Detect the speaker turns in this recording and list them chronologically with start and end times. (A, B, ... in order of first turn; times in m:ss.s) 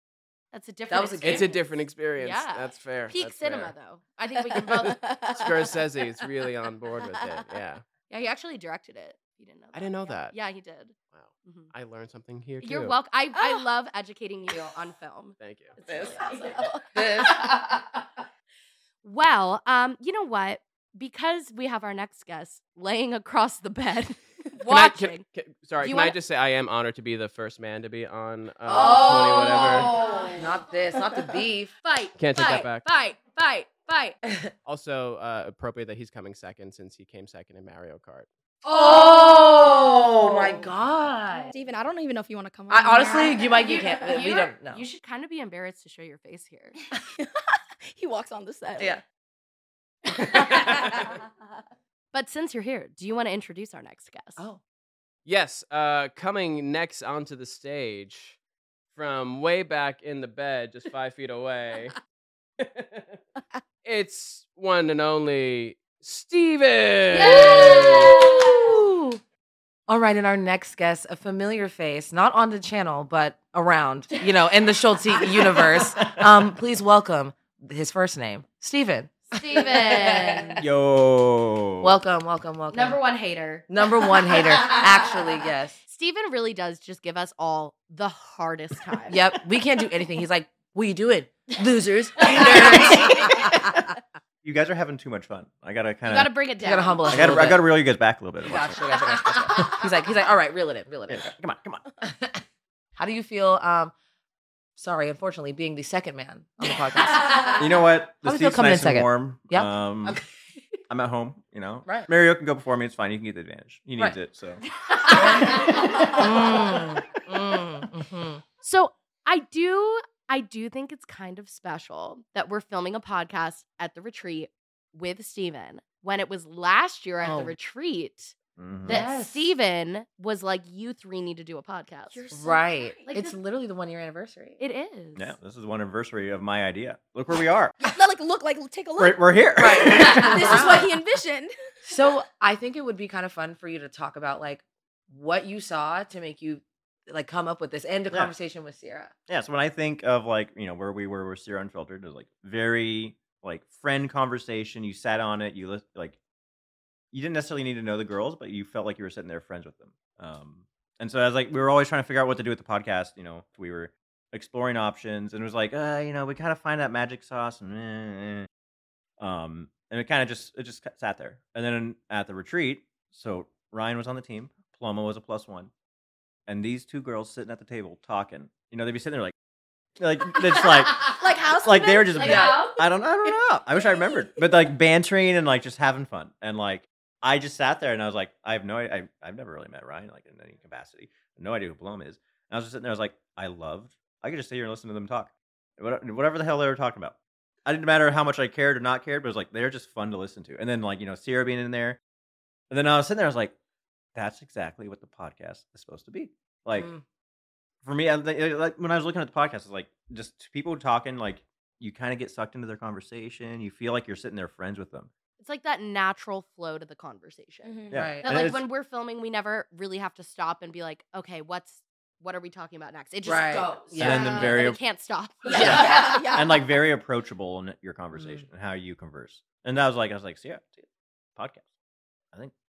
0:00.5-0:05.1 A
0:00.9-0:01.6 B
0:01.2-0:03.7 C
0:04.7-0:05.6 D
0:05.3-0:07.8 C
0:08.1-0:11.7 A
0:09.7-0:10.4 C
0:11.1-0:13.0 C
0:12.6-0:16.5 A
0:15.4-0:15.8 C
0:15.8-0:17.8 B
0:15.8-0:16.9 D
0:19.0-0:25.3 A
0:24.6-0:30.0 C
0:25.8-0:26.2 A
0:28.7-0:31.7 B
0:28.7-0:30.4 D
0:28.7-0:29.9 A
0:31.8-0:34.2 A
0:32.2-0:32.9 C
0:34.7-0:38.3 C
0:38.6-0:41.5 B
0:41.5-0:43.8 D
0:42.7-0:44.9 B
0:43.4-0:46.8 A
0:47.9-0:49.0 D
0:50.2-0:51.0 B
0:50.2-0:51.1 D
0:52.1-0:54.4 A
0:55.3-0:58.4 C
0:58.9-1:02.0 C
1:02.6-1:03.2 C
1:03.8-1:08.2 C
1:07.2-1:09.2 B
1:07.2-1:08.3 A
1:09.9-1:20.6 B
1:19.3-1:20.6 A
1:20.6-1:22.0 E
1:21.8-1:23.0 B
1:22.7-1:24.8 A
1:23.7-1:25.8 B
1:25.9-1:29.2 A
1:29.1-1:33.8 B
1:34.4-1:36.4 E
1:36.1-1:37.5 A
1:36.6-1:37.8 B
1:37.1-1:39.6 E
1:38.4-1:41.3 B
1:41.1-1:41.8 E
1:42.0-1:42.4 B
1:43.0-1:43.9 B
1:44.8-1:47.7 B
1:47.6-1:50.2 E
1:48.2-1:50.2 B
1:50.9-1:54.6 E
1:55.1-1:58.4 B
1:58.6-2:12.2 A
2:07.2-2:07.6 B
2:08.6-2:09.0 E
2:08.8-2:09.4 B
2:12.1-2:13.1 D
2:12.3-2:14.6 B
2:13.1-2:13.3 A
2:14.6-2:15.3 A
2:15.2-2:17.8 E
2:17.8-2:21.5 D
2:19.0-2:20.8 E
2:19.6-2:20.9 B
2:21.8-2:29.1 B
2:29.3-2:36.2 E
2:37.1-2:48.5 E
2:49.2-2:55.7 E
2:56.5-2:59.3 E
3:00.0-3:22.0 E
3:00.5-3:04.3 D
3:02.2-3:02.8 A
3:02.2-3:02.6 B
3:22.7-3:23.6 E
3:24.2-3:26.9 E
3:26.7-3:27.0 B
3:27.8-3:35.1 E
3:35.4-3:46.3 A
3:37.6-3:38.2 D
3:37.9-3:38.6 E
3:37.9-3:38.3 B
3:43.2-3:44.5 B
3:44.0-3:44.8 E
3:44.0-3:44.6 D
3:45.4-3:46.8 D
3:45.5-3:51.7 E
3:45.6-3:46.0 B
3:48.1-3:48.5 B